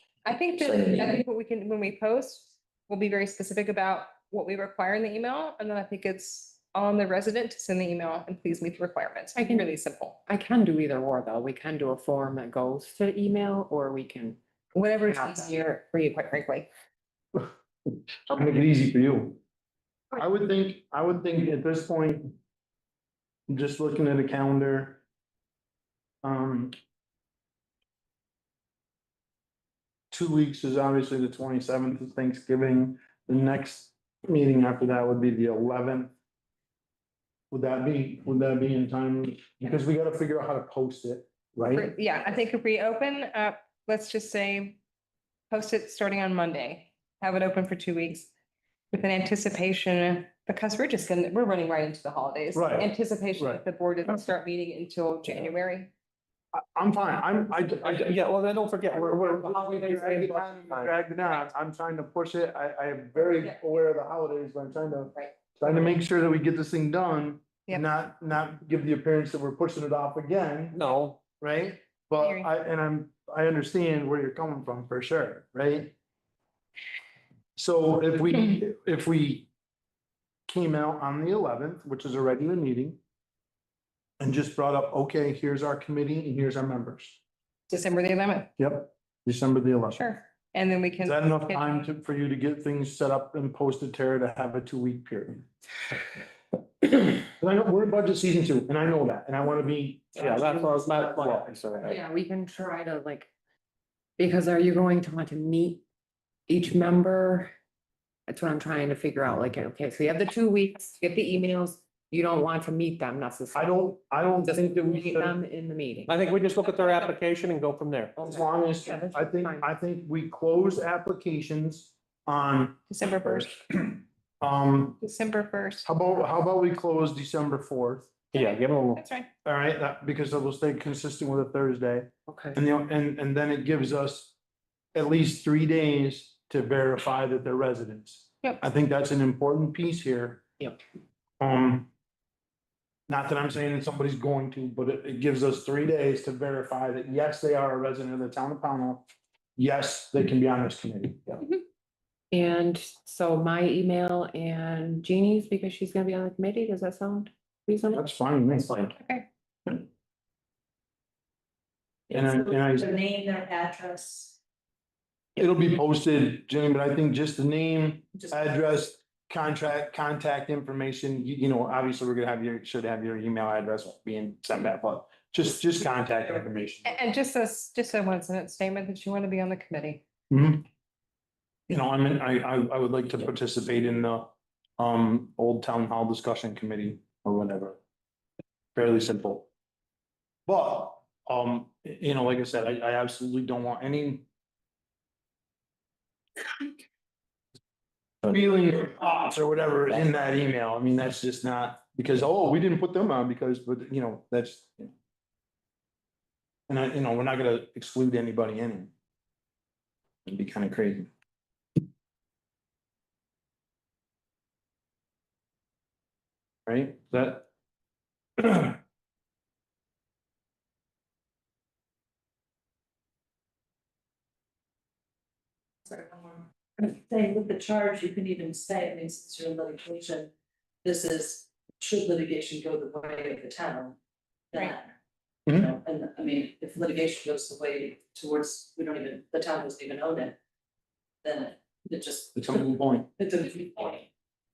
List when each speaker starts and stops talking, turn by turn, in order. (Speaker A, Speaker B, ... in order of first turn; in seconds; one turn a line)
Speaker A: 0.2-10.2
Speaker B: 0.6-1.2
Speaker C: 9.3-9.7
Speaker C: 10.3-14.4
Speaker A: 14.7-16.7
Speaker C: 15.0-15.6
Speaker D: 17.3-19.4
Speaker D: 20.1-22.4
Speaker D: 23.5-25.0
Speaker D: 26.2-26.7
Speaker D: 30.1-36.1
Speaker D: 37.5-41.9
Speaker A: 41.7-44.8
Speaker A: 45.5-48.3
Speaker A: 48.9-55.9
Speaker D: 52.5-53.6
Speaker D: 56.5-58.1
Speaker E: 57.7-60.9
Speaker D: 58.9-70.8
Speaker A: 63.2-63.5
Speaker E: 70.7-71.2
Speaker D: 71.4-75.9
Speaker A: 72.2-72.5
Speaker D: 77.5-79.5
Speaker D: 80.5-83.0
Speaker D: 84.2-87.2
Speaker A: 87.7-88.5
Speaker D: 88.6-90.0
Speaker A: 89.9-91.9
Speaker D: 91.0-95.5
Speaker D: 96.8-101.9
Speaker E: 100.1-102.0
Speaker C: 101.8-103.3
Speaker C: 104.2-105.8
Speaker C: 106.5-107.5
Speaker C: 108.3-116.1
Speaker D: 113.5-115.4
Speaker E: 116.1-118.2
Speaker C: 118.2-119.7
Speaker D: 118.2-125.0
Speaker A: 122.9-123.6
Speaker A: 125.0-125.9
Speaker D: 125.8-128.1
Speaker E: 128.3-129.0
Speaker A: 128.3-129.3
Speaker D: 129.4-134.3
Speaker C: 132.3-132.6
Speaker D: 134.9-140.4
Speaker D: 141.4-141.9
Speaker D: 143.1-151.4
Speaker C: 152.3-158.1
Speaker D: 157.9-158.7
Speaker A: 158.9-159.3
Speaker B: 162.1-164.4
Speaker D: 162.1-162.9
Speaker D: 165.3-177.0
Speaker A: 176.8-180.0
Speaker D: 180.3-180.7
Speaker D: 181.7-187.8
Speaker D: 188.7-189.5
Speaker D: 190.4-194.2
Speaker D: 198.2-204.9
Speaker D: 206.7-208.9
Speaker D: 210.2-211.1
Speaker D: 216.7-217.5
Speaker D: 218.4-218.8
Speaker B: 225.9-230.3
Speaker B: 230.8-234.0
Speaker B: 234.5-234.9
Speaker B: 235.5-240.4
Speaker B: 241.2-244.1
Speaker D: 242.3-243.1